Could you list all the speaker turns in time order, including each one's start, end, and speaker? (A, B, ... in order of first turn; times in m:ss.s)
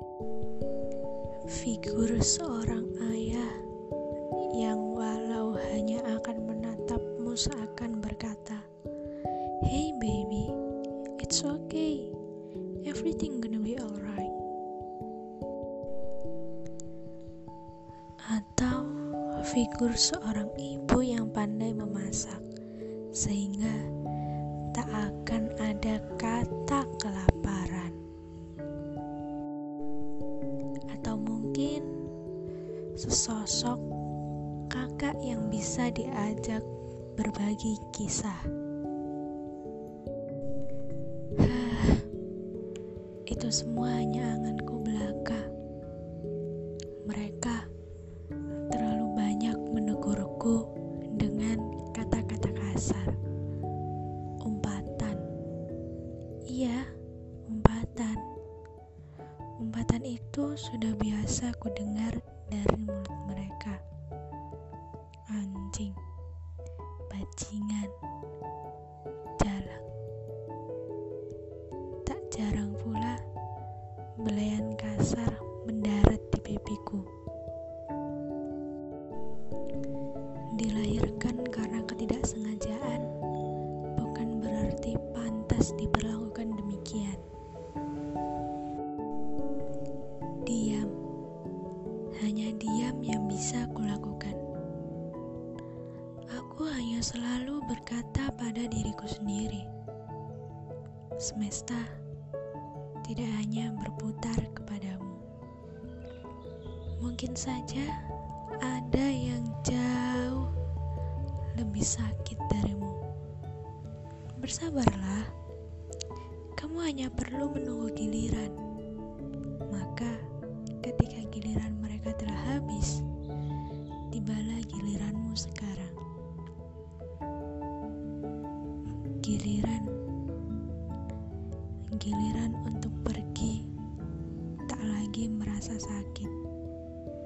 0:01.5-0:03.6 A
0:04.3-0:08.6 A
0:09.6-0:10.5 A
0:11.2-0:12.1 A
0:12.8-0:14.4 A
0:18.2-0:22.4 A
0:23.1-0:23.8 A
0:24.7-0:28.0 A
0:30.9-0:31.9 A
0:33.0-0:33.8 A
0:34.7-0:38.5 A
0:41.4-0:42.1 A
0:43.3-0:45.5 A
0:47.0-0:47.7 A
0:48.7-0:53.2 A
0:54.4-0:55.2 A
0:56.5-0:56.9 A
0:57.5-0:58.2 A
0:59.6-1:03.8 A
1:05.3-1:06.0 A
1:07.1-1:07.9 A
1:09.4-1:09.8 A
1:12.0-1:13.2 A
1:14.2-1:17.1 A
1:20.5-1:23.1 A
1:23.9-1:27.2 A
1:30.4-1:30.9 A
1:32.2-1:34.4 A
1:36.3-1:39.7 A
1:41.2-1:41.9 A
1:43.0-1:45.2 A
1:47.0-1:47.9 A
1:48.6-1:50.5 A
1:51.5-1:53.0 A
1:54.4-1:55.3 A
1:56.6-1:58.6 A
1:59.7-2:00.2 A
2:00.8-2:03.0 A
2:04.1-2:06.0 A
2:09.2-2:10.0 A
2:11.9-2:13.6 A
2:14.6-2:16.3 A